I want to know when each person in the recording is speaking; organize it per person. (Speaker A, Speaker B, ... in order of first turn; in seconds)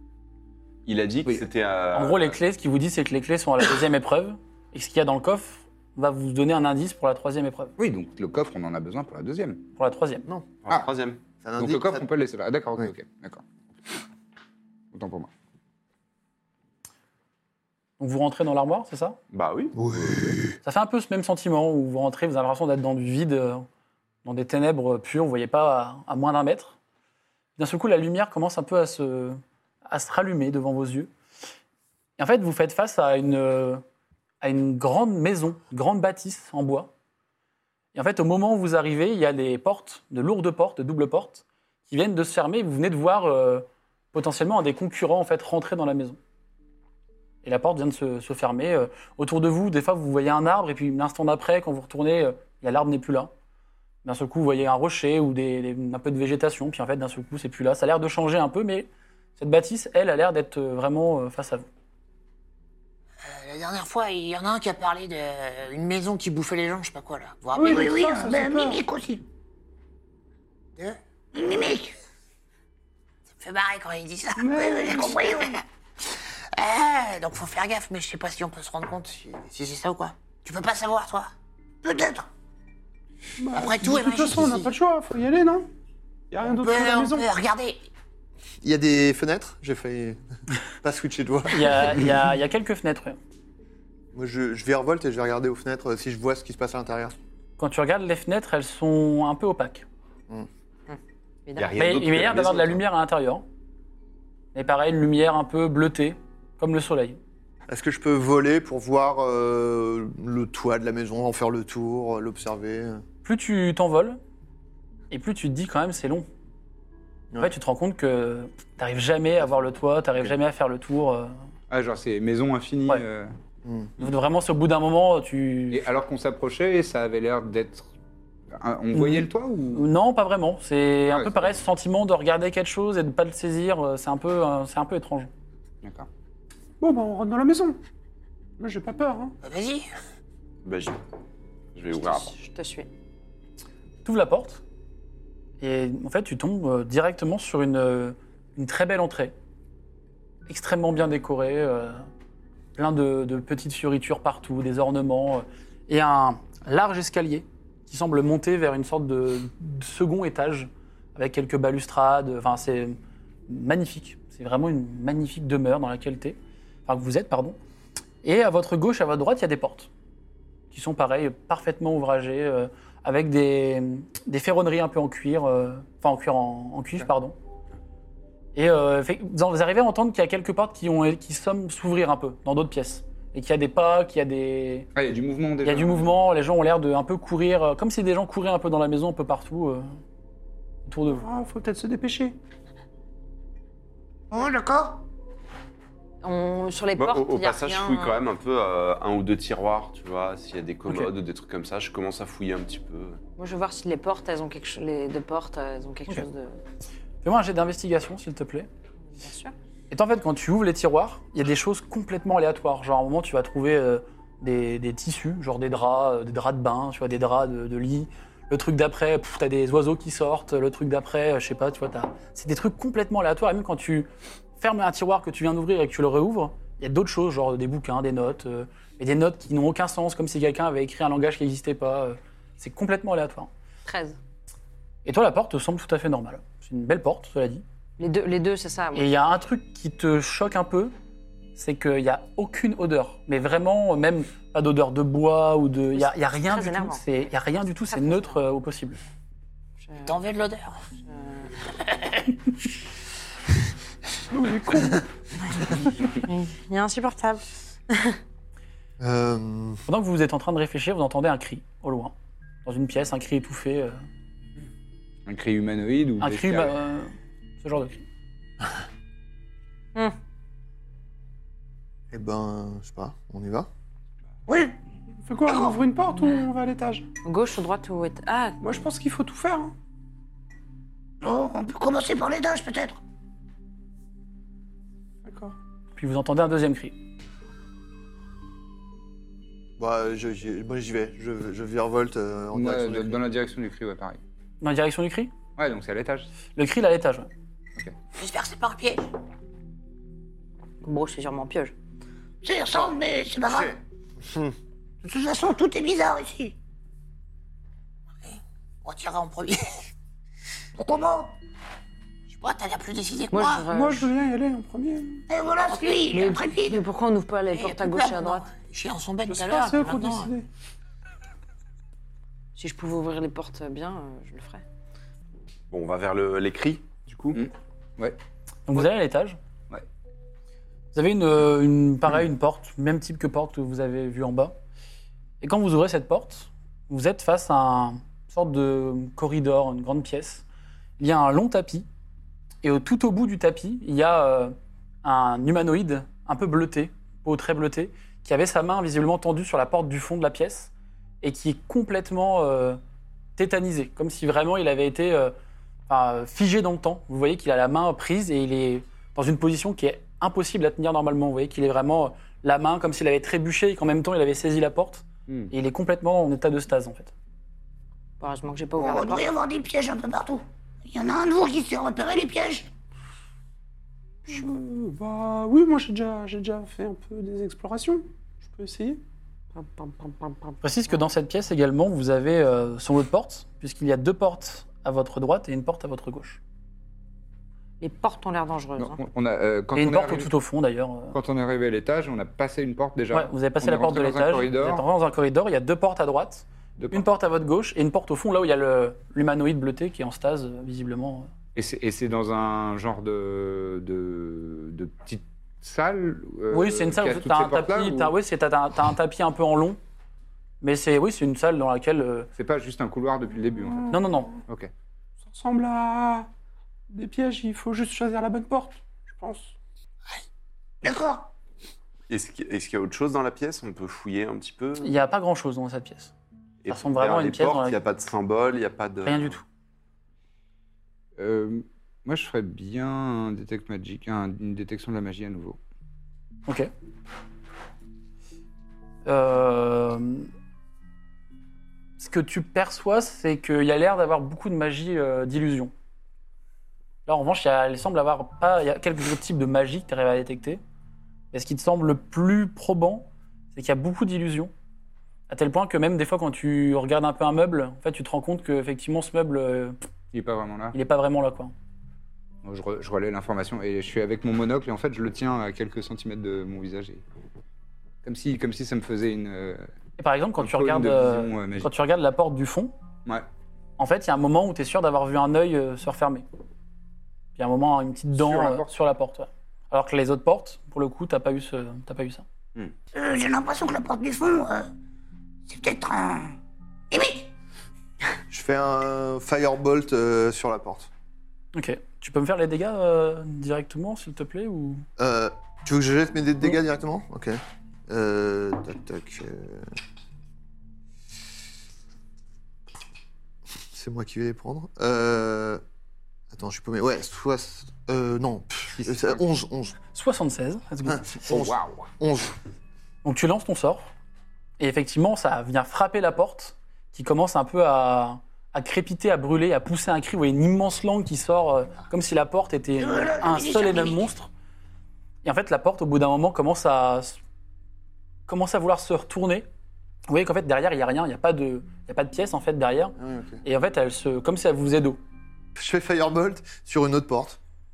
Speaker A: 0.8-2.4, 10.6-11.2, 19.3-20.4, 101.6-102.8, 140.6-141.0, 141.7-142.3, 197.0-203.2, 325.7-327.4, 422.1-424.9, 426.6-429.4
Speaker B: 1.9-7.7, 9.8-10.3, 18.0-19.2, 20.6-23.6, 24.2-26.7, 27.6-31.1, 32.2-33.8, 34.4-36.9, 37.9-46.2, 47.4-53.3, 54.0-61.6, 91.5-93.2, 97.6-99.8, 101.8-103.4, 104.5-107.2, 113.2-114.2, 115.1-116.3, 117.4-121.4, 124.0-125.8, 128.9-135.3, 144.0-144.6, 145.6-149.3, 150.5-152.1, 152.8-163.0, 163.5-167.6, 168.2-169.9, 170.7-177.3, 178.5-184.9, 185.6-189.9, 190.8-191.2, 207.2-208.7, 209.9-233.5, 235.0-237.6, 238.9-240.9, 241.5-249.0, 259.9-264.0, 266.2-268.0, 285.9-287.0, 294.6-295.3, 296.5-297.3, 328.7-329.4, 330.9-334.6, 335.4-340.4, 341.0-341.9, 342.6-352.8, 353.4-355.3, 355.9-367.1, 380.6-386.4, 389.7-391.1, 393.1-401.3, 406.5-409.8, 410.6-412.3, 413.9-414.3, 424.8-426.1, 426.7-427.8, 429.0-429.4, 439.0-440.3, 442.0-445.7, 447.1-450.6, 451.3-454.5, 455.3-459.8, 460.7-461.5, 470.0-472.7, 473.8-476.2, 477.4-482.2, 491.5-494.8, 509.9-511.2, 513.0-513.9, 514.6-524.3, 525.2-527.2, 528.3-529.5, 530.1-535.0
Speaker C: 7.8-9.6, 11.6-13.4, 14.9-15.3, 121.7-123.3, 125.7-127.9, 128.5-129.8, 135.8-136.1, 184.9-186.1, 265.2-266.7, 292.5-294.2, 295.6-296.3, 327.3-328.2, 388.8-390.3, 391.1-394.8, 396.8-397.0, 401.5-408.1, 412.4-414.7, 431.2-435.6, 460.1-460.8, 462.4-467.0, 468.0-469.7, 470.4-471.7, 478.1-478.7, 508.8-509.2, 511.2-511.9
Speaker D: 10.3-10.6, 11.4-12.1, 19.7-20.4, 88.6-90.2, 90.8-92.1, 94.1-97.2, 107.7-113.0, 123.6-123.9, 259.0-259.8, 272.1-273.7, 289.8-293.2, 304.2-304.5, 488.3-490.9, 495.0-499.7, 503.7-505.6, 506.3-509.8, 510.9-512.3, 533.0-533.4, 535.6-537.4
Speaker E: 63.2-67.8, 73.4-74.9, 76.5-81.3, 83.5-84.7, 86.5-87.8, 139.4-139.9, 250.0-250.8, 298.1-299.0, 308.2-309.8, 312.3-313.6, 317.5-320.3
Speaker F: 67.5-68.8, 74.3-75.4, 83.4-85.7, 86.3-87.3, 136.8-137.8, 138.6-139.3, 191.1-192.3, 254.3-255.0, 275.2-277.1, 278.6-279.7, 285.2-285.5, 313.6-315.2, 319.3-320.5, 374.2-379.0, 415.2-416.3, 416.9-419.5
Speaker G: 67.6-69.2, 71.3-71.9, 74.6-75.5, 81.8-82.3, 194.3-195.0, 274.5-274.7, 275.5-275.8, 281.2-283.0, 302.4-303.8, 305.0-306.5, 310.8-311.3, 315.3-316.8, 368.8-372.7, 420.8-421.3, 482.9-484.7, 485.5-486.4, 486.9-487.3, 522.8-524.1
Speaker H: 100.9-101.8, 141.9-142.9, 196.2-198.2, 203.4-206.6, 209.2-209.5, 233.8-234.2, 238.0-239.1, 245.9-247.0, 247.9-248.4, 249.8-250.1, 251.1-251.5, 256.2-258.1, 277.2-278.6, 300.8-301.7, 313.3-314.1, 316.1-318.5, 322.6-324.6, 368.2-369.3, 379.5-380.9, 387.8-389.0